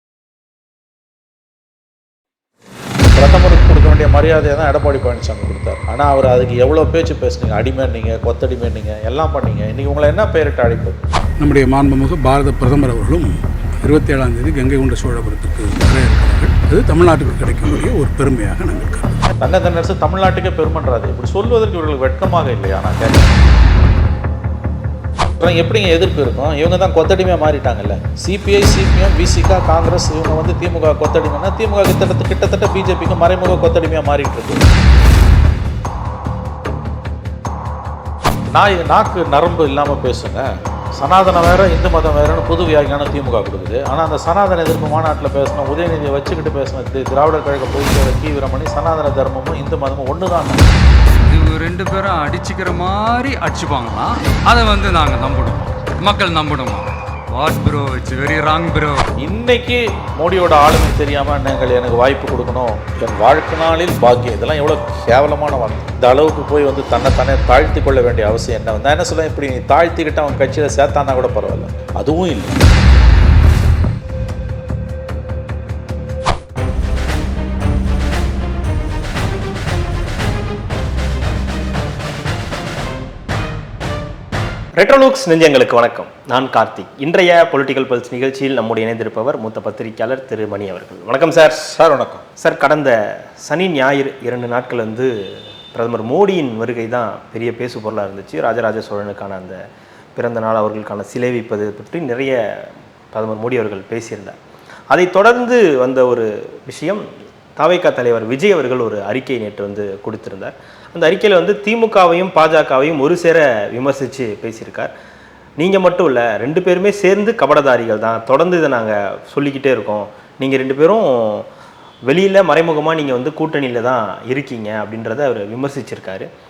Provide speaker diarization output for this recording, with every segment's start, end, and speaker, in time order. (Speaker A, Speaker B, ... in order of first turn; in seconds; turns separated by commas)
Speaker A: 3.1-11.0, Speaker B: 11.4-19.2, Speaker A: 19.4-23.4, Speaker A: 25.4-34.6, Speaker A: 38.5-50.7, Speaker C: 51.3-59.0, Speaker A: 59.2-72.6, Speaker D: 84.8-91.7, Speaker A: 91.6-92.2, Speaker D: 92.4-95.1, Speaker D: 95.7-99.6, Speaker D: 100.2-104.4, Speaker D: 104.9-107.0, Speaker D: 107.6-114.9, Speaker D: 115.6-121.5, Speaker D: 122.1-126.3